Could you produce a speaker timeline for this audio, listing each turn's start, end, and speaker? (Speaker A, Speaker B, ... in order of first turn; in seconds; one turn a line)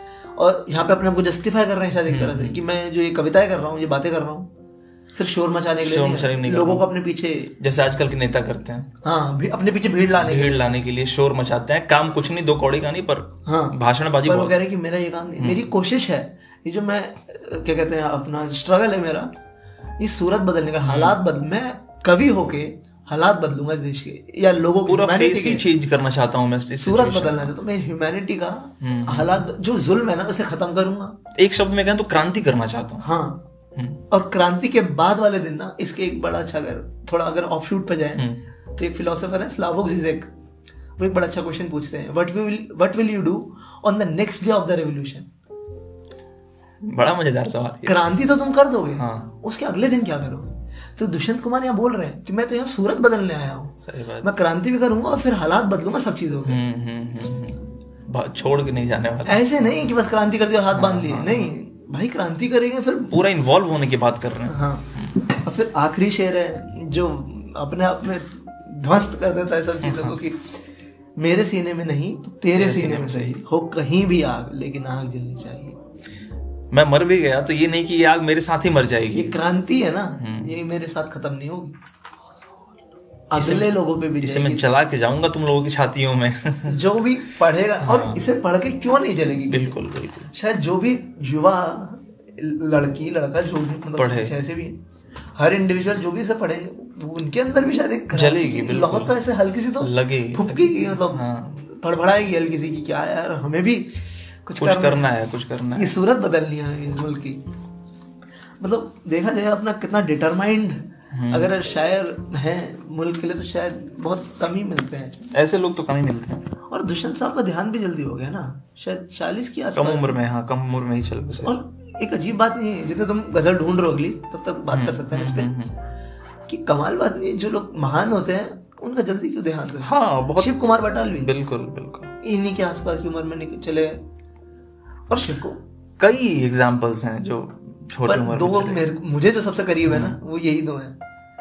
Speaker A: 0.4-4.5
Speaker B: 2.1-2.6
Speaker A: 5.1-7.5
Speaker B: 5.8-6.8
Speaker B: 7.6-8.9
Speaker A: 9.0-10.6
Speaker B: 10.2-14.5
Speaker A: 13.4-19.3
Speaker B: 15.4-15.6
Speaker A: 20.0-25.6
Speaker B: 20.8-21.2
Speaker B: 24.9-27.5
Speaker A: 26.8-31.1
Speaker B: 28.8-29.4
Speaker B: 31.4-33.0
Speaker A: 33.0-33.4
Speaker B: 33.7-34.0
Speaker A: 34.1-38.2
Speaker A: 38.8-40.3
Speaker A: 41.0-45.3
Speaker B: 46.8-48.0
Speaker A: 47.8-56.6
Speaker B: 49.0-49.3
Speaker B: 53.8-54.3
Speaker B: 56.5-59.7
Speaker A: 59.2-63.2
Speaker B: 60.7-61.5
Speaker B: 63.1-65.1
Speaker A: 64.5-70.6
Speaker B: 69.8-70.2
Speaker A: 71.2-75.8
Speaker B: 72.5-73.4
Speaker B: 76.7-79.3
Speaker A: 79.1-81.7
Speaker B: 80.2-80.5
Speaker A: 83.3-84.6
Speaker B: 83.4-86.8
Speaker A: 86.7-89.7
Speaker B: 87.8-88.2
Speaker B: 89.5-90.3
Speaker A: 90.3-94.8
Speaker B: 94.0-94.3
Speaker A: 95.4-105.1
Speaker B: 98.1-99.2
Speaker B: 99.8-101.6
Speaker B: 104.6-105.9
Speaker A: 105.7-107.4
Speaker A: 108.6-115.2
Speaker B: 111.1-111.5
Speaker B: 115.3-116.5
Speaker A: 116.7-120.2
Speaker B: 119.7-121.5
Speaker A: 121.4-125.5
Speaker B: 124.7-125.7
Speaker A: 126.5-131.3
Speaker B: 129.8-132.1
Speaker A: 132.2-134.0
Speaker A: 135.1-135.6
Speaker B: 136.0-138.8
Speaker A: 138.1-141.0
Speaker B: 139.9-140.2